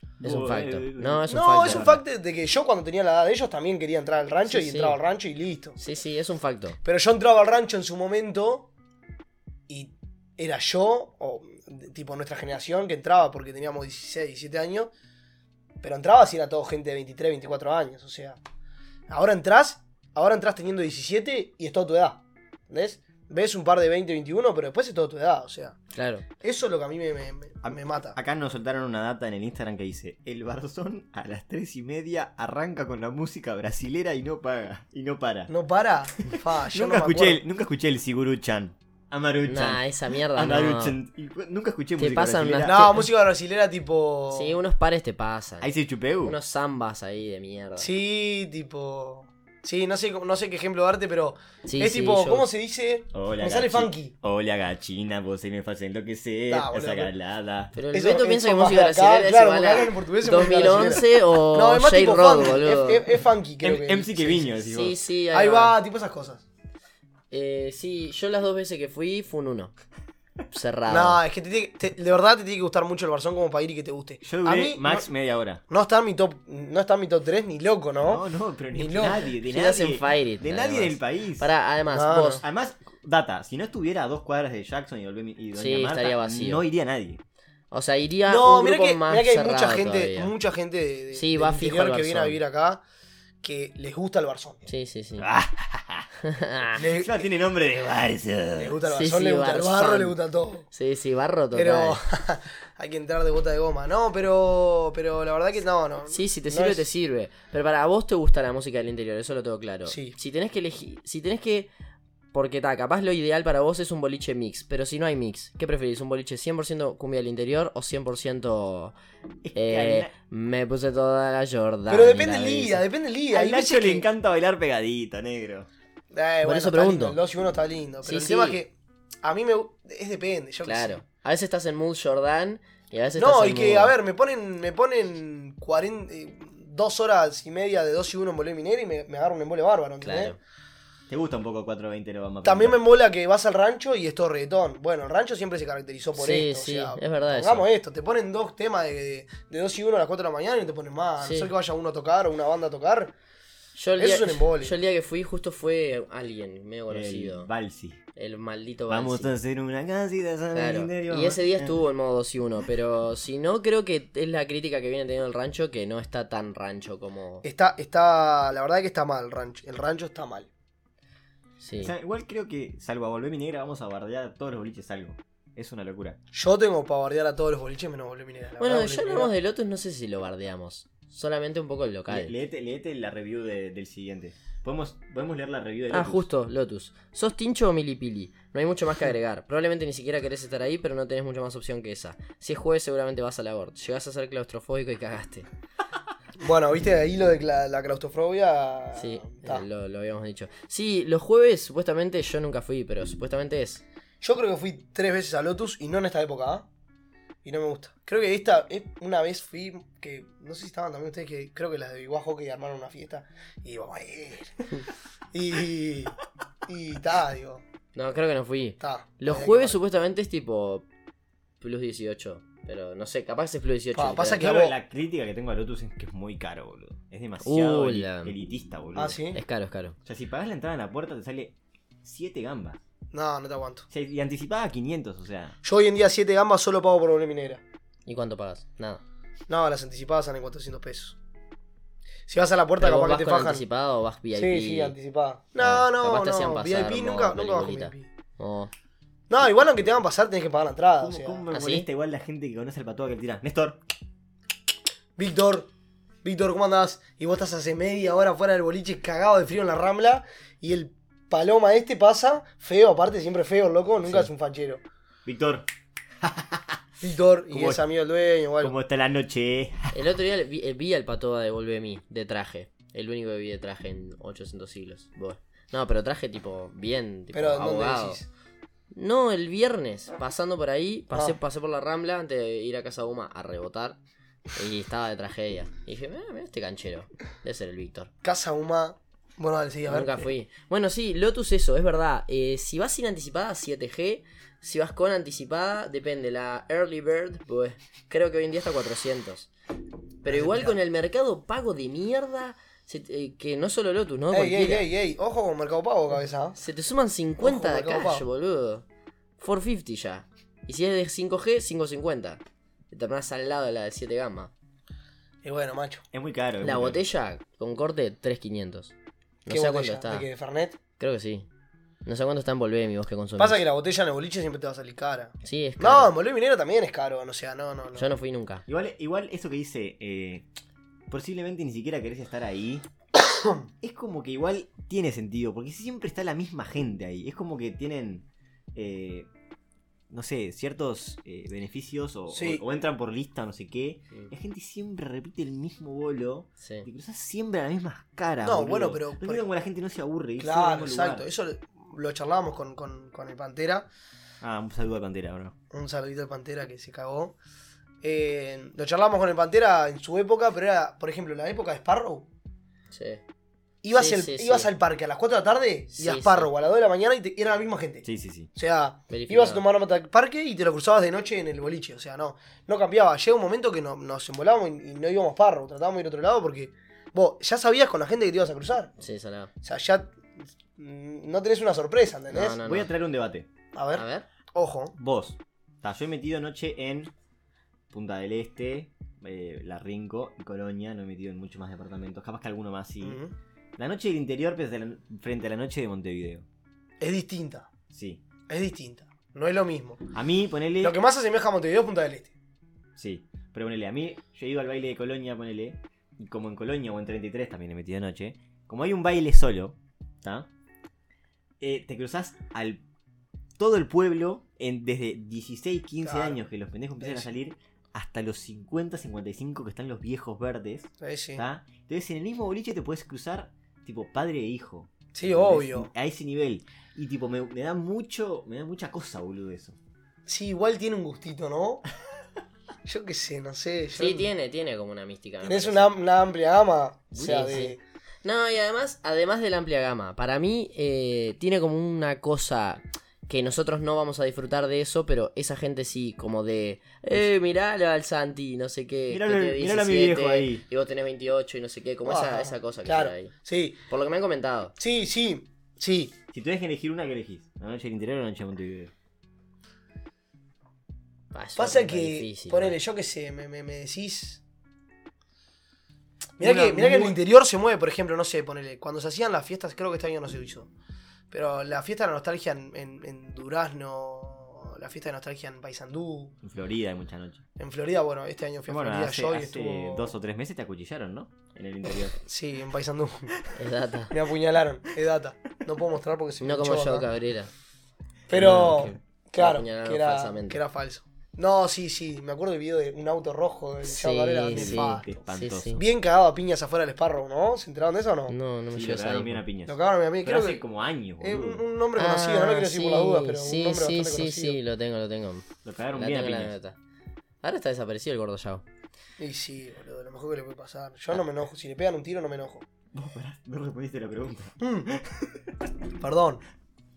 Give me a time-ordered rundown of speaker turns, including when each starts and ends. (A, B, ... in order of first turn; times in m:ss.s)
0:00.2-0:02.0 A
0:00.2-0:02.0 B
0:01.3-0:05.8 C
0:04.4-0:05.0 B
0:05.8-0:06.8 B
0:06.8-0:08.7 C
0:09.7-0:14.9 C
0:15.8-0:18.4 C
0:19.1-0:25.8 C
0:25.9-0:26.2 B
0:26.4-0:28.2 C
0:27.6-0:35.5 A
0:35.5-0:37.4 C
0:36.2-0:42.8 A
0:39.4-0:41.0 B
0:42.0-0:43.1 B
0:42.6-0:44.6 C
0:44.3-0:45.7 B
0:45.6-0:46.4 A
0:46.2-0:47.9 B
0:47.8-0:54.1 C
0:51.6-0:52.4 B
0:53.1-0:57.7 A
0:56.5-0:57.1 C
0:57.7-1:03.0 B
0:57.9-1:04.5 C
1:03.6-1:05.0 A
1:04.6-1:05.7 B
1:05.3-1:06.4 C
1:07.3-1:09.7 B
1:10.5-1:11.2 B
1:10.9-1:15.1 C
1:14.2-1:15.6 A
1:15.7-1:19.3 C
1:18.0-1:21.5 A
1:19.4-1:22.4 B
1:21.9-1:22.4 C
1:22.4-1:27.2 A
1:25.6-1:26.6 B
1:27.7-1:30.3 B
1:28.3-1:32.8 C
1:31.1-1:32.4 B
1:33.4-1:34.6 C
1:34.6-1:35.3 B
1:35.2-1:36.1 A
1:36.2-1:36.8 B
1:36.8-1:37.2 C
1:36.8-1:38.8 A
1:38.6-1:40.7 C
1:38.9-1:40.2 B
1:40.7-1:42.0 B
1:41.5-1:46.8 C
1:46.1-1:51.7 B
1:49.8-1:50.2 C
1:52.3-1:58.9 B
1:59.4-2:00.1 A
1:59.5-2:02.8 B
2:01.9-2:04.0 C
2:03.3-2:05.7 A
2:06.1-2:11.0 C
2:06.4-2:07.2 B
2:08.0-2:08.6 B
2:10.6-2:13.9 B
2:13.2-2:20.4 C
2:20.0-2:20.4 B
2:21.1-2:22.8 A
2:22.4-2:33.1 C
2:26.2-2:27.7 B
2:31.2-2:31.5 B
2:33.8-2:37.5 B
2:34.0-2:34.7 C
2:36.9-2:38.0 A
2:38.2-2:39.3 B
2:38.9-2:41.8 A
2:40.5-2:47.4 B
2:47.4-2:50.5 C
2:51.6-2:51.9 B
2:51.8-2:56.2 A
2:56.3-2:59.3 C
2:58.6-3:02.3 B
3:02.1-3:06.2 A
3:05.9-3:15.5 B
3:16.4-3:19.6 C
3:19.0-3:23.8 B
3:24.2-3:26.6 C
3:27.4-3:34.8 C
3:35.3-3:37.6 C
3:37.9-3:40.8 B
3:38.8-3:39.8 C
3:41.6-3:44.4 B
3:44.0-3:44.7 C
3:44.3-3:49.2 A
3:47.4-3:48.3 B
3:49.0-3:49.4 C
3:49.3-3:50.0 B
3:50.0-3:52.8 A
3:53.1-3:53.9 C
3:53.9-3:55.6 A
3:55.6-3:57.6 C
3:58.0-3:59.0 B
3:59.5-4:01.2 C
4:02.3-4:03.6 C
4:02.8-4:04.9 B
4:04.3-4:08.1 C
4:05.6-4:08.7 B
4:09.3-4:11.4 C
4:11.0-4:13.8 A
4:11.5-4:11.8 B
4:15.2-4:15.7 C
4:16.2-4:24.8 C
4:25.2-4:25.7 A
4:26.2-4:26.8 A
4:27.0-4:28.7 C
4:27.5-4:27.8 A
4:28.6-4:30.0 A
4:29.9-4:38.2 B
4:37.3-4:38.3 C
4:38.9-4:44.0 B
4:41.1-4:41.4 C
4:44.5-4:48.1 B
4:48.2-4:50.3 C
4:49.9-4:59.5 B
5:00.2-5:04.9 B
5:00.2-5:00.8 C
5:04.3-5:06.6 C
5:06.6-5:08.8 B
5:07.4-5:08.2 C
5:09.4-5:12.4 B
5:12.9-5:14.5 B
5:15.4-5:16.0 C
5:16.1-5:17.0 A
5:16.6-5:18.9 B
5:19.4-5:20.3 B
5:19.5-5:20.8 C
5:21.0-5:21.5 B
5:22.0-5:23.6 B
5:23.4-5:28.1 C
5:25.4-5:26.1 B
5:27.9-5:28.6 B
5:28.7-5:30.5 A
5:31.1-5:32.8 A
5:33.3-5:33.6 C
5:33.8-5:39.3 A
5:40.1-5:51.2 A
5:42.3-5:42.6 C
5:46.6-5:46.9 B
5:48.4-5:49.4 C
5:50.4-5:53.9 C
5:54.4-5:55.5 A
5:55.7-5:57.3 C
5:58.0-6:02.3 C
6:02.9-6:03.2 B
6:03.8-6:18.9 C
6:03.9-6:04.7 B
6:05.9-6:06.5 B
6:08.0-6:08.5 A
6:09.1-6:09.6 B
6:19.0-6:19.5 B
6:19.6-6:20.1 C
6:20.8-6:22.6 C
6:22.3-6:22.9 B
6:22.6-6:23.5 A
6:23.7-6:24.9 C
6:23.9-6:24.2 B
6:24.9-6:27.1 A
6:27.9-6:33.2 A
6:33.0-6:33.3 C
6:33.8-6:36.4 A
6:37.0-6:37.7 C
6:37.9-6:38.2 A
6:38.5-6:40.0 C
6:40.1-6:41.0 A
6:40.8-6:42.3 C
6:43.0-6:50.5 A
6:51.6-6:52.8 A
6:53.6-7:09.8 A
6:56.0-6:56.4 C
6:57.0-6:57.3 C
7:01.0-7:01.4 C
7:05.1-7:05.9 C
7:10.2-7:11.8 C
7:12.8-7:14.3 C
7:13.9-7:15.9 B
7:15.4-7:17.8 C
7:17.1-7:33.3 B
7:29.1-7:30.6 A
7:32.0-7:33.8 C
7:33.9-7:34.7 B
7:34.8-7:36.1 C
7:36.3-7:38.9 A
7:41.3-7:42.8 B
7:41.6-7:44.4 C
7:46.4-7:50.7 C
7:46.4-7:47.2 A
7:51.3-7:56.3 C
7:56.4-7:57.4 A
7:57.6-8:00.1 C
7:58.7-8:02.2 A
8:02.2-8:03.4 C
8:03.5-8:04.1 B
8:04.1-8:07.1 C
8:06.4-8:07.5 B
8:08.3-8:15.2 C
8:08.3-8:08.9 A
8:08.4-8:10.6 B
8:13.8-8:15.8 B
8:14.5-8:15.8 A
8:15.8-8:18.3 C
8:18.3-8:19.4 B
8:18.7-8:21.6 A
8:19.7-8:20.6 C
8:21.2-8:24.6 C
8:22.0-8:26.8 B
8:25.6-8:26.5 A
8:27.4-8:28.6 B
8:29.2-8:32.6 C
8:32.9-8:35.5 A
8:34.6-8:34.9 C
8:36.0-8:36.4 C